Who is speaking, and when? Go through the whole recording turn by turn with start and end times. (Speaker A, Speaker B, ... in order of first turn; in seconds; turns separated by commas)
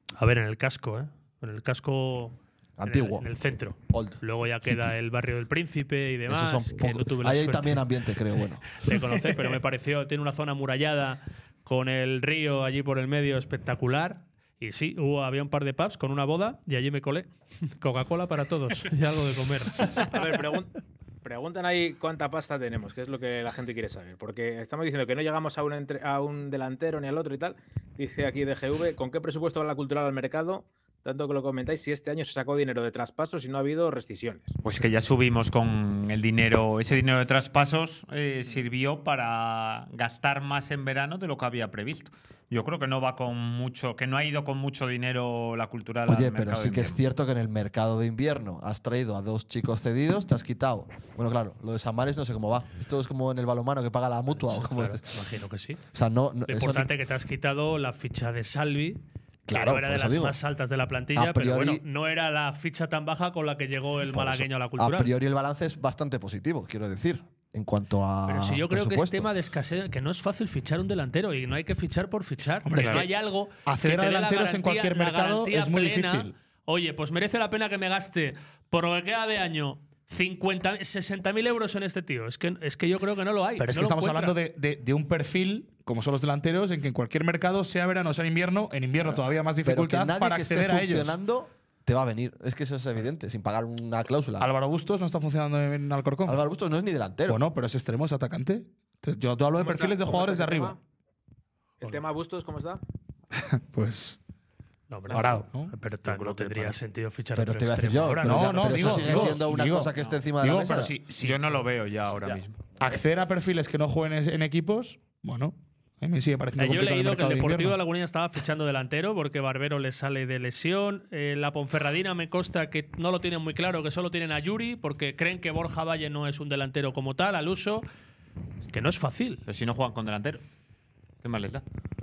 Speaker A: 0.2-7.9, Speaker B: 2.8-3.3, Speaker B: 3.9-4.9, Speaker B: 6.3-8.8, Speaker A: 8.8-20.1, Speaker C: 20.0-34.5, Speaker D: 34.6-47.0, Speaker B: 46.0-55.2, Speaker A: 54.3-55.8, Speaker B: 55.9-56.9, Speaker A: 56.5-65.1, Speaker B: 59.5-60.4, Speaker B: 61.1-61.8, Speaker B: 64.1-69.3, Speaker A: 68.3-84.4, Speaker E: 72.6-73.1, Speaker E: 73.6-76.3, Speaker E: 83.6-91.1, Speaker B: 89.6-94.5, Speaker E: 94.4-96.4, Speaker B: 96.2-97.4, Speaker E: 97.3-100.8, Speaker C: 99.5-100.8, Speaker C: 101.8-102.8, Speaker E: 103.4-104.2, Speaker A: 104.9-109.4, Speaker E: 105.1-105.7, Speaker D: 106.0-106.8, Speaker B: 107.3-110.9, Speaker E: 108.2-111.5, Speaker D: 111.2-112.6, Speaker E: 112.8-117.8, Speaker A: 116.6-127.8, Speaker A: 128.7-129.4, Speaker D: 129.5-130.4, Speaker D: 131.2-131.6